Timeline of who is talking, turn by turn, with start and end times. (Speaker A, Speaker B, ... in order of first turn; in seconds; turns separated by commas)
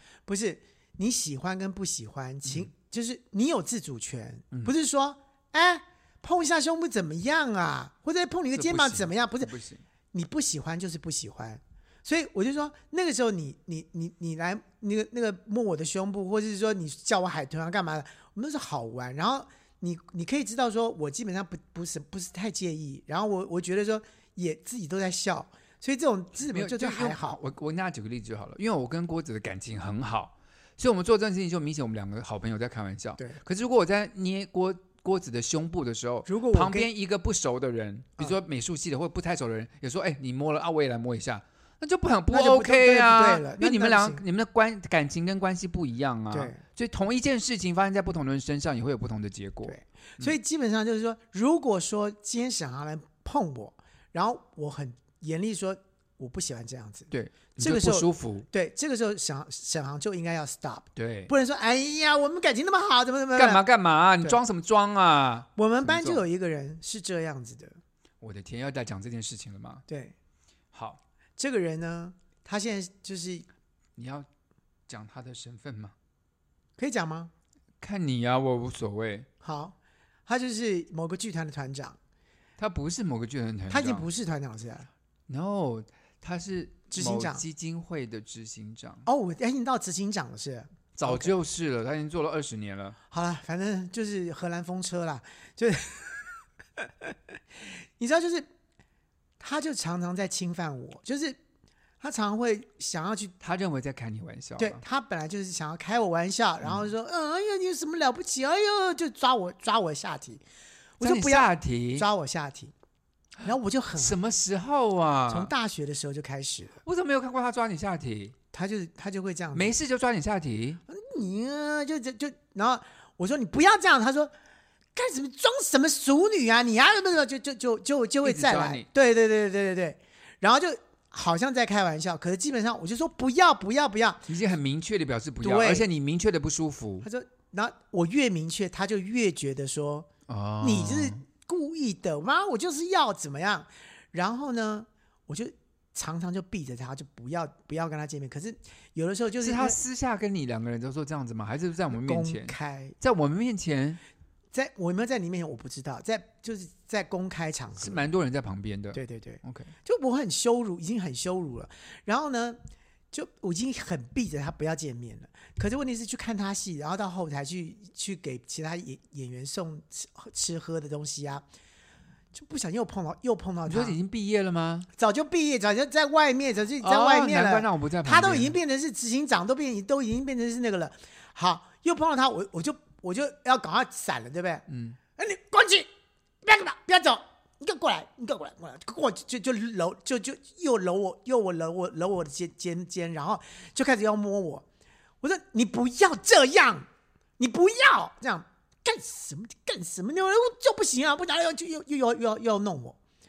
Speaker A: 0.3-9.5, Speaker B: 8.5-9.8, Speaker A: 10.1-27.4, Speaker B: 26.5-50.3, Speaker A: 36.3-36.9, Speaker A: 42.3-44.2, Speaker A: 46.3-46.6, Speaker A: 49.6-63.6, Speaker B: 57.1-58.5, Speaker B: 61.0-61.3, Speaker B: 63.4-66.2, Speaker A: 65.6-67.8, Speaker B: 68.2-69.8, Speaker A: 69.9-70.2, Speaker B: 70.7-71.0, Speaker A: 71.4-73.5, Speaker B: 74.0-74.3, Speaker B: 74.9-76.0, Speaker A: 76.8-77.3, Speaker B: 77.8-79.3, Speaker A: 79.4-82.0, Speaker B: 82.6-84.1, Speaker A: 83.7-84.9, Speaker B: 85.3-89.1, Speaker A: 86.9-87.4, Speaker A: 89.0-91.3, Speaker B: 91.0-93.0, Speaker A: 93.1-98.5, Speaker A: 99.4-101.4, Speaker A: 102.0-103.3, Speaker B: 103.4-104.8, Speaker A: 104.6-110.4, Speaker B: 106.6-106.9, Speaker A: 111.0-112.7, Speaker B: 111.0-112.1, Speaker A: 113.4-114.2, Speaker B: 114.0-115.5, Speaker A: 115.3-116.8, Speaker B: 116.8-118.4, Speaker A: 118.5-119.8, Speaker B: 119.5-120.8, Speaker A: 120.9-124.3, Speaker A: 125.0-134.3, Speaker B: 128.2-128.9, Speaker B: 134.3-137.1, Speaker A: 135.4-135.9, Speaker A: 137.0-140.1, Speaker B: 140.3-141.2, Speaker A: 140.6-149.8, Speaker B: 149.4-154.0, Speaker A: 151.9-152.9, Speaker A: 154.5-158.0, Speaker B: 157.8-159.7, Speaker A: 158.9-162.6, Speaker A: 163.1-171.4, Speaker A: 172.3-174.0, Speaker B: 173.7-174.9, Speaker A: 174.9-184.7, Speaker B: 176.8-178.6, Speaker B: 184.7-185.0, Speaker A: 185.2-185.9, Speaker A: 186.4-194.7, Speaker A: 195.2-196.9, Speaker A: 197.4-203.0